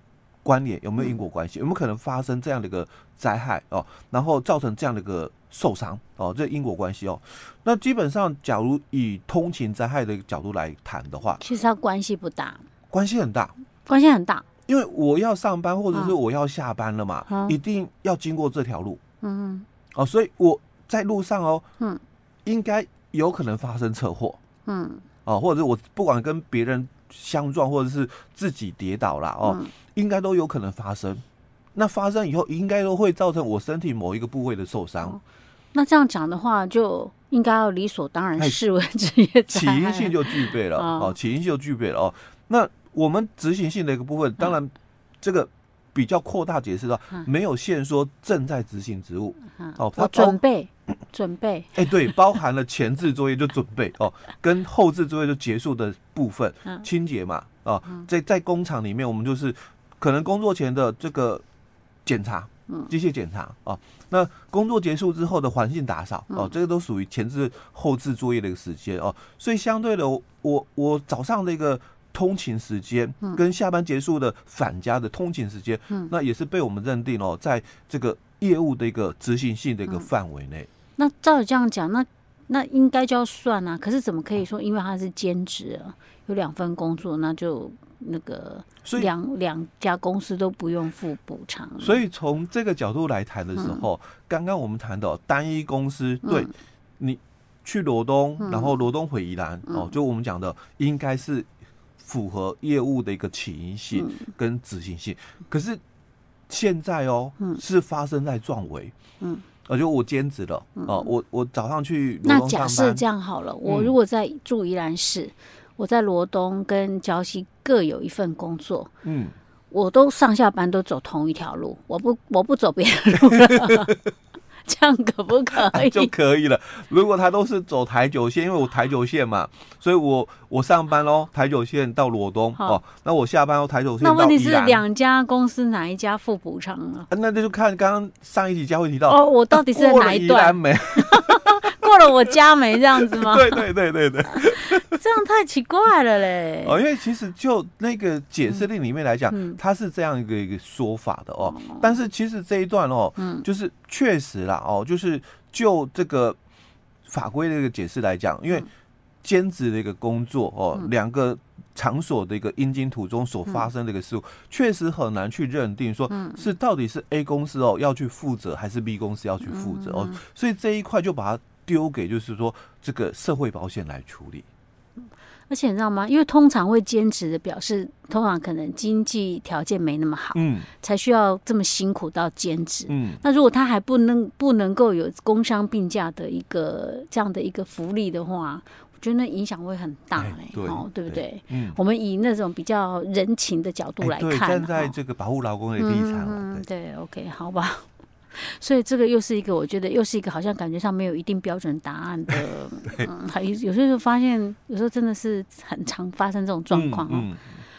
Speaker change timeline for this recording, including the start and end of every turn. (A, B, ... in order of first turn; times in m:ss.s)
0:00.4-0:11.4 A
0:11.4-0:12.6 B
0:12.9-0:13.5 A
0:13.8-0:14.4 B
0:14.7-0:19.0 A
0:17.3-0:17.6 B
0:19.2-0:19.6 B
0:19.9-0:21.6 A
0:22.4-0:24.4 A
0:24.6-0:25.0 B
0:25.2-0:31.2 A
0:29.4-0:29.7 B
0:31.7-0:35.2 A
0:35.7-0:41.1 B
0:39.5-0:50.4 A
0:49.6-0:52.1 B
0:51.7-1:01.4 A
1:02.0-1:20.7 A
1:21.0-1:32.0 B
1:28.8-1:29.1 A
1:31.8-1:45.8 A
1:33.6-1:33.8 B
1:36.2-1:36.5 B
1:38.4-1:38.7 B
1:44.0-1:44.3 B
1:46.5-1:48.9 A
1:49.6-1:53.0 A
1:50.8-1:51.1 B
1:52.2-1:58.9 B
1:53.6-1:53.9 A
1:59.0-1:59.3 A
1:59.7-2:03.9 B
2:03.3-2:03.8 A
2:04.6-2:06.1 B
2:05.6-2:14.8 A
2:14.0-2:17.1 B
2:17.1-2:21.9 A
2:19.1-2:23.6 B
2:23.0-2:25.0 A
2:24.4-2:26.8 B
2:26.6-2:36.4 A
2:29.3-2:29.6 B
2:31.4-2:31.8 B
2:33.2-2:33.4 B
2:37.0-2:38.7 A
2:39.2-2:54.4 A
2:46.1-2:46.4 B
2:49.5-2:50.2 B
2:55.5-3:14.9 B
3:00.3-3:00.7 A
3:02.9-3:03.2 A
3:10.2-3:11.8 A
3:14.0-3:16.6 A
3:15.8-3:27.3 B
3:22.3-3:23.1 A
3:26.7-3:27.6 A